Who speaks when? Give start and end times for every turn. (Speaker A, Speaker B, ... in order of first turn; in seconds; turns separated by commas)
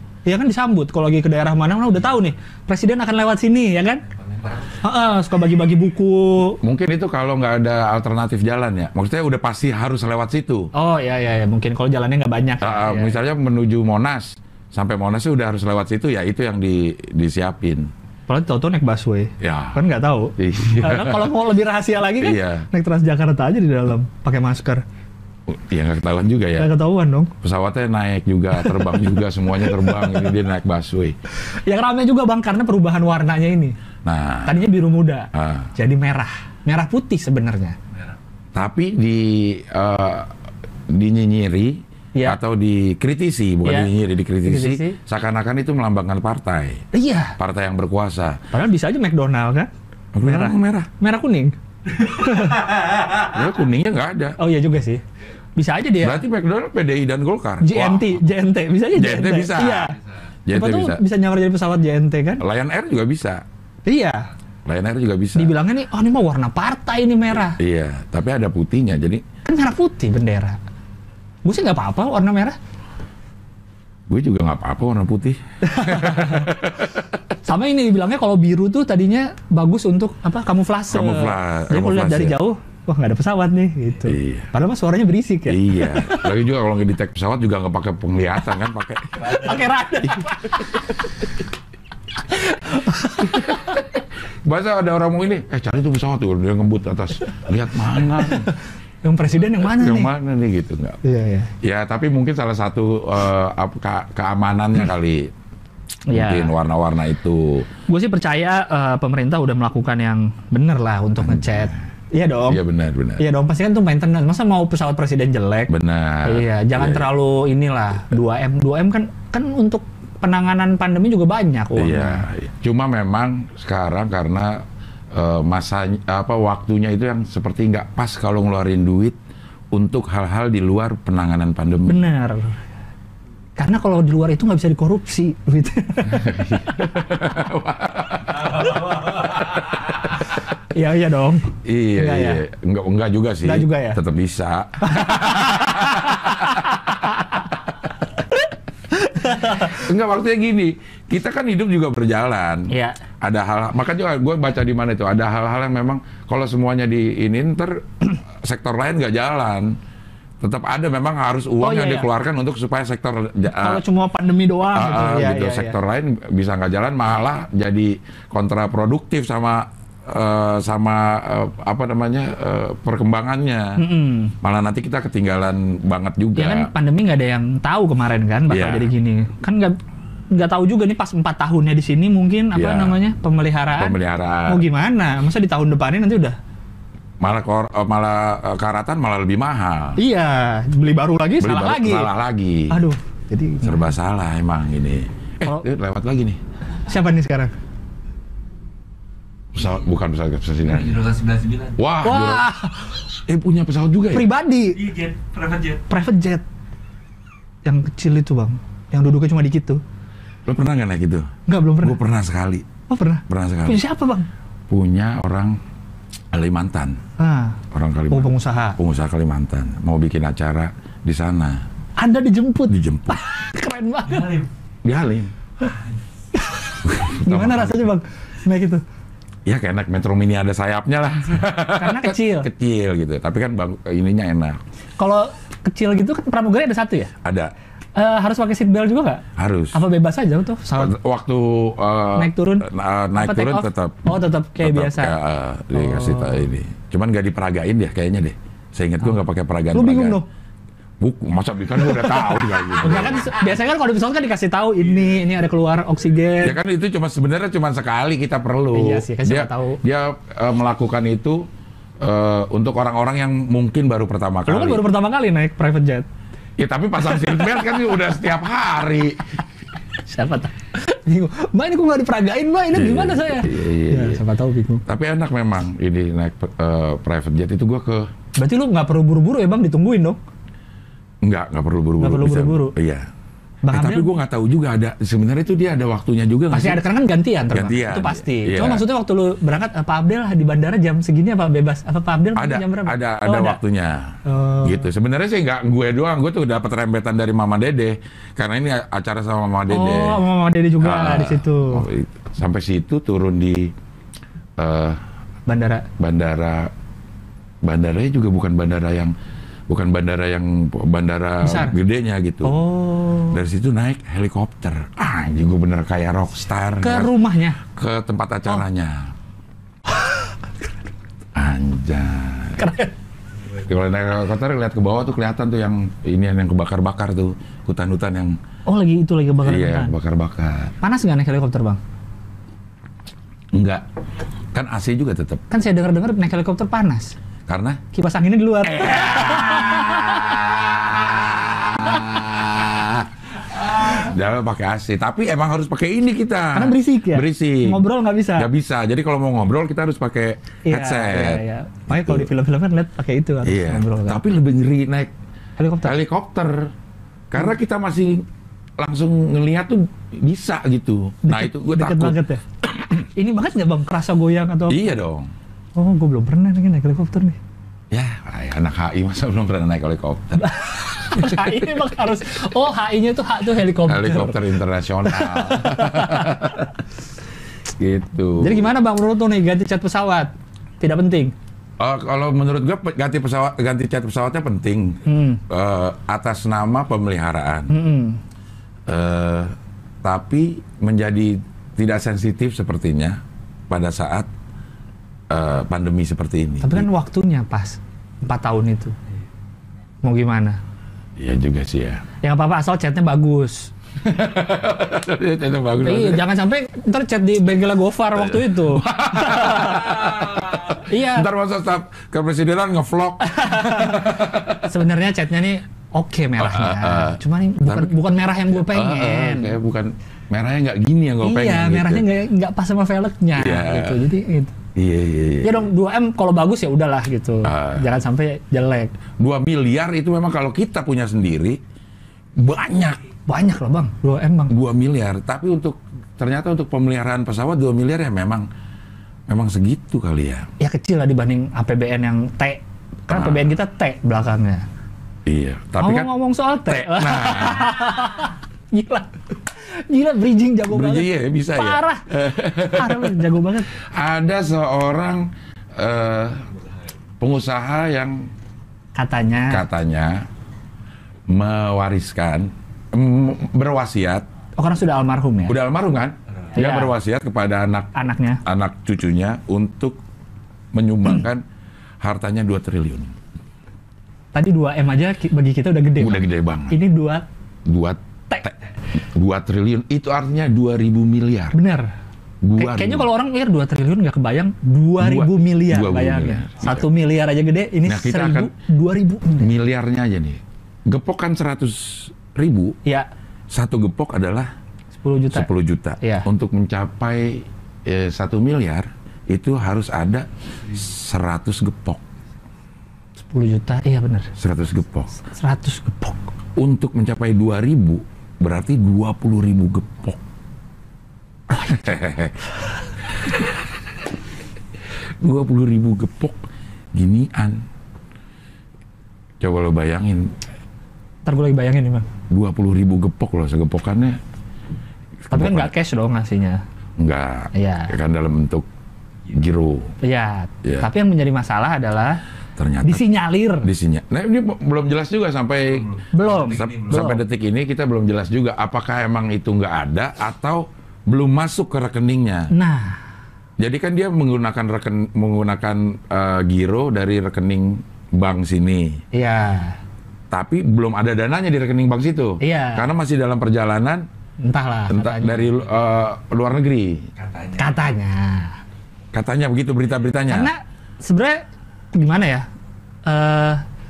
Speaker A: 0.2-4.0, Speaker B: 4.2-4.8, Speaker A: 4.8-6.6, Speaker C: 6.6-10.7, Speaker A: 10.7-13.2, Speaker C: 12.6-17.9, Speaker A: 18.3-24.8, Speaker C: 19.4-19.8, Speaker C: 20.4-21.3, Speaker C: 22.2-22.7, Speaker C: 25.5-26.7, Speaker A: 26.6-27.3, Speaker C: 27.4-31.1, Speaker A: 28.6-30.2, Speaker A: 31.3-33.8, Speaker C: 34.0-34.6, Speaker A: 34.4-37.8, Speaker C: 35.3-35.7, Speaker C: 38.5-40.3, Speaker C: 40.9-46.8, Speaker A: 43.6-43.9, Speaker A: 44.4-45.0, Speaker A: 46.9-47.4, Speaker C: 47.4-48.4, Speaker A: 48.5-49.7, Speaker C: 50.1-50.9, Speaker A: 50.2-53.2, Speaker C: 53.2-54.4, Speaker A: 54.4-55.0, Speaker A: 55.5-56.2, Speaker C: 56.0-58.2, Speaker A: 57.6-60.0, Speaker C: 58.9-59.9, Speaker C: 60.5-61.0, Speaker A: 60.5-62.4, Speaker C: 62.4-63.4, Speaker A: 63.9-64.3, Speaker C: 64.7-65.5, Speaker A: 65.3-67.6, Speaker C: 67.5-69.2, Speaker A: 69.4-70.6, Speaker A: 71.4-72.6, Speaker C: 74.1-77.2, Speaker A: 75.7-76.5, Speaker A: 77.4-86.3, Speaker C: 80.9-82.4, Speaker C: 84.0-84.5, Speaker C: 85.5-89.5, Speaker A: 89.2-91.2, Speaker A: 92.3-93.8, Speaker C: 93.2-93.8, Speaker C: 94.4-98.5, Speaker A: 98.2-100.1, Speaker C: 99.6-101.0, Speaker A: 101.0-101.5, Speaker C: 101.6-105.3, Speaker A: 106.1-106.5, Speaker C: 106.1-107.7, Speaker A: 107.9-112.6, Speaker C: 111.2-111.8, Speaker C: 112.5-113.2, Speaker A: 113.2-115.7, Speaker C: 115.7-117.1, Speaker A: 116.2-122.2, Speaker C: 121.8-129.2, Speaker C: 129.7-132.0, Speaker A: 131.8-132.6, Speaker A: 133.6-136.8, Speaker C: 136.1-138.8, Speaker A: 140.7-142.4, Speaker C: 141.6-146.6, Speaker A: 143.4-144.0, Speaker A: 144.8-146.4, Speaker A: 148.9-149.8, Speaker C: 149.5-159.7, Speaker A: 152.7-153.0, Speaker C: 160.4-163.8, Speaker A: 161.6-162.1, Speaker A: 163.5-165.8, Speaker C: 164.7-173.8, Speaker A: 173.8-174.3, Speaker C: 174.4-176.7, Speaker A: 176.3-179.8, Speaker C: 178.5-178.9, Speaker A: 180.3-186.4, Speaker C: 182.5-183.0, Speaker C: 183.8-184.6, Speaker C: 187.2-190.0, Speaker A: 190.0-192.1, Speaker C: 191.4-192.8, Speaker A: 192.7-193.9, Speaker C: 193.6-196.4, Speaker A: 196.8-197.5, Speaker C: 199.5-201.1, Speaker B: 200.7-201.8, Speaker C: 201.8-202.5, Speaker A: 202.0-203.0, Speaker C: 203.2-204.3, Speaker A: 204.1-204.9, Speaker B: 204.8-205.8, Speaker A: 205.9-206.4, Speaker A: 207.6-209.8, Speaker C: 210.4-212.7, Speaker A: 211.5-212.0, Speaker A: 212.9-214.3, Speaker C: 213.3-213.8, Speaker C: 214.7-215.6, Speaker C: 216.3-217.0, Speaker A: 217.2-218.8, Speaker C: 217.7-221.6, Speaker A: 222.0-224.4, Speaker C: 222.7-223.2, Speaker B: 224.2-224.4, Speaker C: 224.8-225.3, Speaker A: 226.3-228.8, Speaker C: 226.8-227.9, Speaker C: 229.4-234.6, Speaker A: 231.8-232.5, Speaker A: 235.0-237.1, Speaker C: 237.2-237.5, Speaker A: 237.9-240.9, Speaker C: 239.3-239.8, Speaker C: 240.8-250.2, Speaker A: 242.2-245.2, Speaker A: 245.7-246.5, Speaker A: 249.7-250.2, Speaker C: 251.0-253.3, Speaker A: 251.8-256.6, Speaker C: 256.4-261.4, Speaker A: 258.7-259.8, Speaker C: 262.0-264.8, Speaker A: 264.5-266.1, Speaker C: 266.6-269.4, Speaker A: 267.1-267.7, Speaker A: 270.1-274.8, Speaker C: 272.7-274.2, Speaker C: 274.9-278.1, Speaker A: 278.4-280.2, Speaker C: 281.2-283.1, Speaker A: 282.0-282.7, Speaker A: 283.6-284.1, Speaker C: 283.7-286.8, Speaker A: 286.5-293.6, Speaker C: 287.5-288.8, Speaker C: 292.4-300.2, Speaker A: 294.2-294.9, Speaker A: 299.7-301.9, Speaker C: 300.8-303.7, Speaker C: 304.6-305.0, Speaker A: 305.5-305.9, Speaker C: 306.0-306.7, Speaker C: 307.6-309.1, Speaker C: 309.7-312.6, Speaker A: 311.4-311.8, Speaker A: 312.4-313.4, Speaker C: 313.3-319.1, Speaker A: 316.8-317.6, Speaker A: 319.9-320.3, Speaker C: 321.3-322.7, Speaker A: 322.6-322.9, Speaker C: 323.6-328.4, Speaker A: 328.6-329.9, Speaker C: 329.4-330.7, Speaker A: 330.8-331.8, Speaker C: 333.5-333.8, Speaker C: 334.5-335.4, Speaker A: 335.5-337.1, Speaker C: 337.5-337.8, Speaker A: 337.9-340.5, Speaker C: 338.6-347.8, Speaker A: 346.5-348.5, Speaker C: 348.4-352.3, Speaker A: 350.6-354.2, Speaker C: 353.4-355.1, Speaker A: 355.6-356.0, Speaker C: 355.8-356.7, Speaker C: 357.3-358.2, Speaker C: 358.8-363.0, Speaker A: 361.2-362.4, Speaker A: 363.0-364.9, Speaker C: 364.7-365.3, Speaker A: 365.7-367.4, Speaker C: 367.9-371.6, Speaker A: 370.4-374.4, Speaker C: 373.8-376.7, Speaker A: 375.1-376.5, Speaker C: 377.8-378.7, Speaker A: 378.4-381.3, Speaker C: 381.8-387.8, Speaker A: 385.1-385.4, Speaker A: 387.7-388.2, Speaker C: 388.9-394.3, Speaker C: 395.3-396.9, Speaker A: 396.6-398.9, Speaker A: 400.0-400.6, Speaker C: 401.2-402.0, Speaker A: 402.2-403.7, Speaker C: 404.0-406.2, Speaker A: 405.8-411.3, Speaker C: 408.2-414.7, Speaker A: 413.2-419.6, Speaker C: 416.4-422.1, Speaker A: 421.2-424.6, Speaker C: 423.4-424.0, Speaker C: 424.7-425.6, Speaker A: 425.4-428.9, Speaker C: 427.4-427.9, Speaker C: 429.2-431.6, Speaker C: 432.4-433.0, Speaker A: 433.3-434.5, Speaker C: 434.5-438.4, Speaker C: 439.3-440.5, Speaker A: 440.6-444.6, Speaker C: 443.1-443.5, Speaker C: 445.3-446.1, Speaker A: 445.8-452.0, Speaker C: 446.6-448.0, Speaker C: 450.7-456.4, Speaker A: 452.7-453.7, Speaker C: 457.2-458.3, Speaker A: 458.9-459.6, Speaker C: 459.5-460.2, Speaker C: 461.3-464.2, Speaker A: 464.6-465.6, Speaker C: 465.5-467.9, Speaker A: 466.5-466.9, Speaker A: 467.9-468.4, Speaker C: 468.4-470.0, Speaker C: 470.7-471.4, Speaker C: 472.0-473.1, Speaker A: 474.3-477.2, Speaker C: 476.0-476.8, Speaker C: 477.6-481.6, Speaker A: 481.5-481.9, Speaker C: 482.4-483.1, Speaker A: 482.6-489.5, Speaker C: 485.0-486.8, Speaker C: 487.9-488.5, Speaker C: 489.4-492.8, Speaker C: 493.5-494.5, Speaker A: 495.0-495.5, Speaker C: 495.3-502.0, Speaker A: 496.0-496.3, Speaker A: 503.2-504.3, Speaker C: 504.4-505.1, Speaker A: 505.2-506.2, Speaker C: 506.6-510.2, Speaker A: 511.5-512.0, Speaker C: 511.5-512.4, Speaker C: 513.2-513.5, Speaker C: 515.2-517.6, Speaker C: 519.4-520.3, Speaker A: 521.2-522.1, Speaker C: 522.3-524.2, Speaker C: 525.3-525.7, Speaker A: 525.3-526.6, Speaker C: 527.0-528.7, Speaker A: 527.5-527.9, Speaker C: 529.3-529.9, Speaker A: 530.0-532.2, Speaker C: 530.6-530.9, Speaker C: 532.5-533.0, Speaker A: 532.8-533.7, Speaker C: 533.6-542.5, Speaker B: 535.7-537.1, Speaker A: 536.1-537.2, Speaker A: 542.5-543.0, Speaker C: 543.6-549.0, Speaker A: 549.1-549.8, Speaker C: 550.3-554.0, Speaker A: 552.4-552.8, Speaker A: 554.4-555.5, Speaker C: 554.9-557.1, Speaker B: 557.2-557.7, Speaker A: 557.6-558.6, Speaker C: 559.1-560.5, Speaker A: 560.3-562.5, Speaker A: 563.0-563.6